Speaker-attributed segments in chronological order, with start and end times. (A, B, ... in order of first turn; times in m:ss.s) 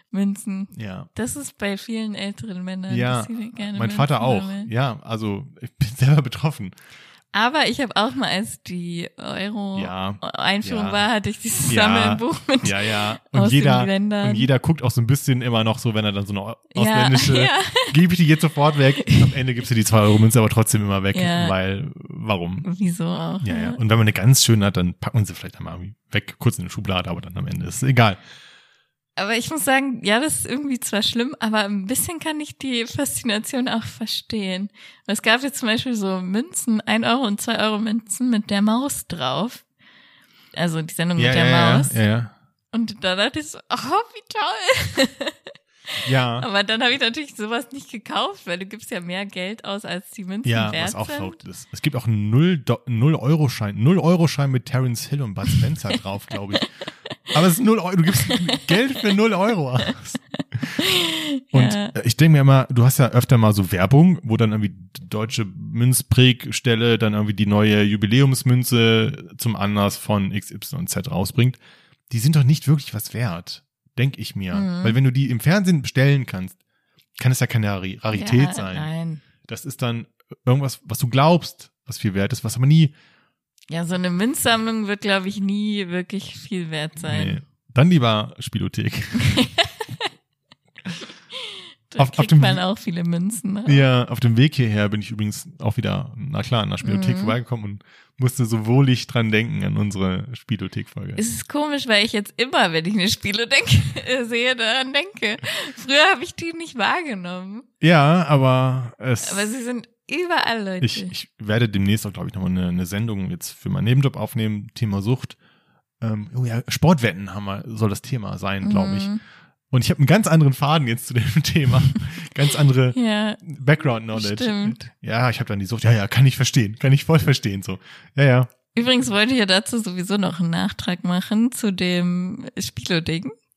0:00.1-0:04.7 A
0:00.7-0:01.1 B
0:02.9-0:06.7 B
0:07.3-0:14.5 A
0:09.8-0:11.0 B
0:11.7-0:22.7 B
0:16.7-0:18.0 A
0:19.0-0:19.3 A
0:21.1-0:21.5 A
0:22.6-0:23.8 A
0:23.4-0:28.2 B
0:29.2-0:39.6 A
0:40.5-0:42.0 A
0:41.2-0:42.3 B
0:42.7-0:45.5 A
0:46.0-0:46.5 B
0:46.4-0:51.4 A
0:50.4-0:56.7 B
0:57.3-1:00.2 B
0:58.1-0:59.0 A
0:59.8-1:01.9 A
1:01.5-1:11.6 B
1:12.1-1:16.6 B
1:14.5-1:15.0 A
1:17.2-1:18.9 B
1:18.1-1:19.2 A
1:19.5-1:22.9 B
1:23.7-1:27.4 A
1:27.0-1:29.4 B
1:29.2-1:29.7 A
1:31.4-1:33.8 A
1:32.0-1:32.6 B
1:33.6-1:41.2 B
1:36.8-1:37.4 A
1:41.2-1:47.6 A
1:47.8-1:49.6 B
1:49.2-1:51.1 A
1:50.8-1:55.4 B
1:56.0-1:59.1 B
1:58.6-1:59.2 A
1:59.7-2:08.5 B
2:02.9-2:03.4 A
2:04.1-2:04.8 A
2:08.7-2:13.3 A